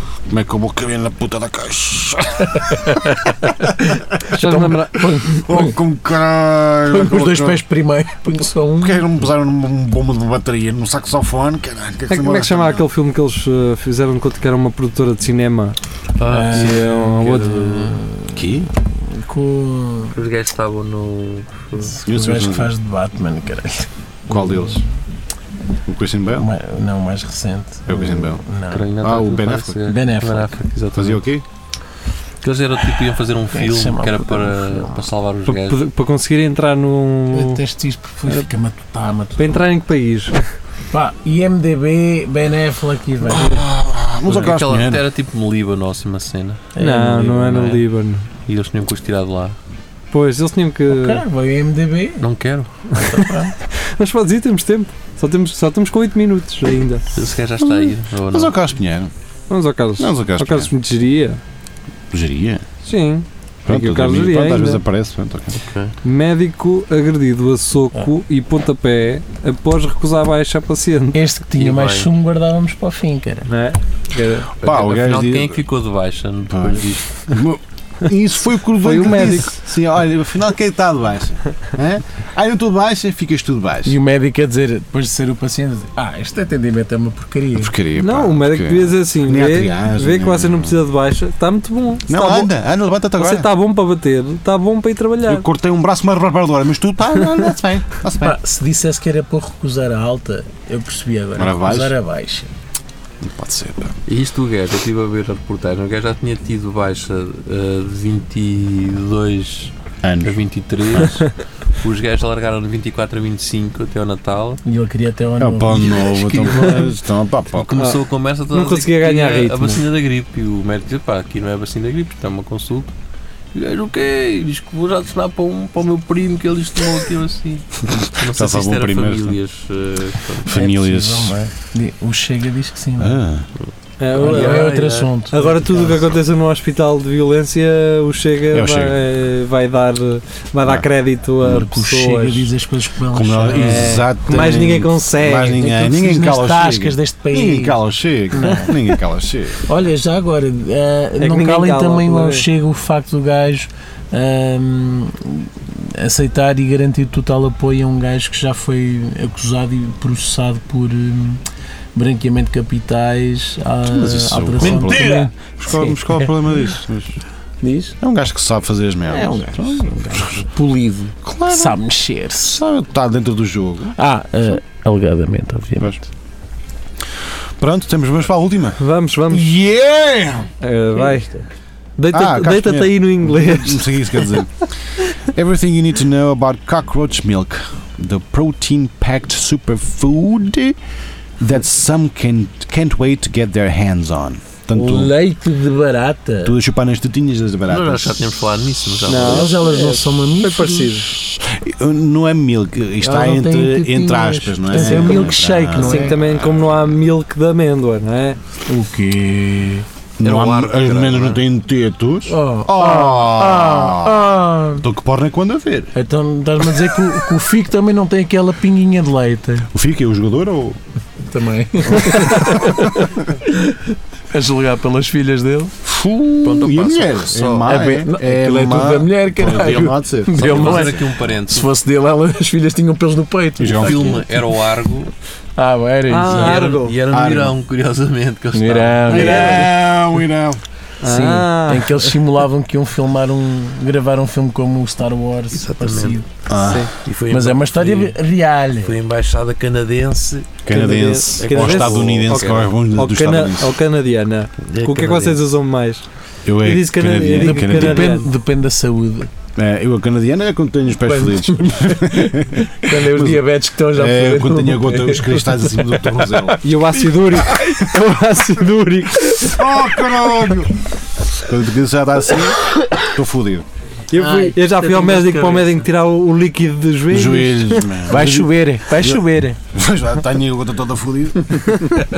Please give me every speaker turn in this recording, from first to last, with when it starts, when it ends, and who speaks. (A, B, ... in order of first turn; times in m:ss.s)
0:00.3-0:03.0 A
0:02.9-0:03.3 B
0:04.0-0:05.7 B
0:04.3-0:05.3 C
0:05.2-0:07.6 A
0:06.9-0:09.0 B
0:08.8-0:12.9 A
0:12.1-0:15.8 C
0:16.2-0:18.0 D
0:16.3-0:18.4 B
0:16.5-0:17.6 C
0:18.3-0:18.7 A
0:19.1-0:20.2 B
0:20.1-0:22.0 D
0:21.9-0:24.7 B
0:22.0-0:22.7 A
0:24.3-0:24.8 A
0:25.8-0:26.5 A
0:26.4-0:28.9 B
0:27.9-0:28.4 A
0:28.7-0:31.2 D
0:29.0-0:29.8 A
0:29.8-0:30.6 B
0:30.9-0:31.4 A
0:32.4-0:35.9 D
0:33.5-0:35.1 B
0:35.5-0:37.6 C
0:37.3-0:39.5 B
0:39.4-0:40.4 C
0:40.9-0:43.7 B
0:43.2-0:45.0 A
0:44.2-0:46.7 D
0:46.7-0:47.8 B
0:46.8-0:48.3 C
0:48.4-0:49.6 D
0:50.1-0:51.2 C
0:50.9-0:52.3 B
0:52.2-0:52.7 D
0:52.9-0:57.0 C
0:53.0-0:53.5 B
0:57.1-0:58.5 D
0:57.6-0:59.1 A
0:59.5-1:01.4 C
1:00.0-1:00.7 A
1:02.1-1:02.6 A
1:02.8-1:04.8 C
1:03.7-1:05.6 A
1:05.6-1:05.9 D
1:06.0-1:11.2 C
1:11.1-1:13.5 B
1:11.5-1:12.1 D
1:13.4-1:14.5 C
1:14.6-1:15.6 A
1:14.6-1:17.0 D
1:16.5-1:24.0 A
1:18.8-1:19.6 C
1:18.9-1:19.4 B
1:23.8-1:27.7 B
1:27.6-1:30.8 A
1:28.0-1:32.5 C
1:32.1-1:33.5 A
1:33.2-1:35.4 C
1:35.2-1:38.4 A
1:38.2-1:42.5 B
1:41.4-1:42.0 A
1:43.2-1:43.9 A
1:44.0-1:54.6 D
1:50.0-1:51.2 A
1:54.6-1:56.8 B
1:55.4-1:57.7 A
1:56.0-1:56.9 D
1:57.5-2:02.9 D
1:57.8-1:59.8 C
2:03.5-2:10.5 D
2:07.9-2:09.4 A
2:10.4-2:11.4 A
2:10.4-2:13.2 B
2:13.0-2:13.4 A
2:13.6-2:15.1 D
2:14.0-2:14.7 C
2:14.1-2:16.1 B
2:15.3-2:22.5 C
2:18.5-2:19.0 A
2:21.4-2:24.0 B
2:23.1-2:29.6 A
2:23.5-2:25.6 C
2:25.6-2:27.8 B
2:28.3-2:29.0 B
2:29.6-2:41.4 B
2:31.2-2:32.5 C
2:41.9-2:46.3 B
2:43.8-2:47.2 A
2:47.6-2:48.0 B
2:48.0-2:50.4 A
2:49.1-2:52.6 B
2:51.2-2:51.8 A
2:52.4-2:54.0 A
2:54.0-2:56.0 B
2:57.6-3:00.5 A
2:58.8-2:59.5 C
3:00.6-3:01.3 C
3:00.9-3:01.4 B
3:02.0-3:04.4 C
3:02.1-3:10.8 A
3:11.4-3:15.1 A
3:14.7-3:16.5 B
3:16.4-3:18.2 A
3:17.7-3:19.5 D
3:19.0-3:21.1 C
3:19.2-3:21.0 B
3:21.1-3:26.9 A
3:23.0-3:26.2 B
3:24.7-3:28.4 C
3:28.7-3:29.8 B
3:30.2-3:35.9 A
3:30.2-3:31.4 D
3:32.3-3:34.8 B
3:35.9-3:39.7 B
3:39.7-3:40.8 A
3:41.2-3:45.7 B
3:45.8-3:51.0 A
3:46.4-3:47.7 D
3:47.6-3:54.4 B
3:50.3-3:51.7 D
3:53.6-3:54.2 A
3:53.8-3:55.1 D
3:55.6-3:56.6 B
3:56.1-3:57.0 C
3:56.2-3:59.6 D
3:57.1-3:57.6 A
3:58.5-3:59.7 B
3:59.1-4:00.6 A
3:59.1-3:59.6 C
4:01.0-4:02.0 C
4:01.0-4:06.3 B
4:05.5-4:06.2 D
4:06.5-4:06.9 A
4:06.6-4:06.9 C
4:07.0-4:08.2 D
4:07.3-4:08.9 B
4:08.8-4:10.7 D
4:10.6-4:13.8 A
4:10.7-4:16.1 C
4:11.4-4:12.7 D
4:14.7-4:15.5 D
4:16.4-4:18.1 A
4:16.6-4:18.3 C
4:17.2-4:19.3 B
4:19.6-4:26.6 A
4:21.0-4:27.6 B
4:26.6-4:29.6 C
4:29.4-4:30.8 A
4:31.3-4:33.6 A
4:34.1-4:38.0 C
4:34.1-4:35.6 B
4:35.2-4:35.7 D
4:37.1-4:41.7 A
4:38.1-4:39.6 B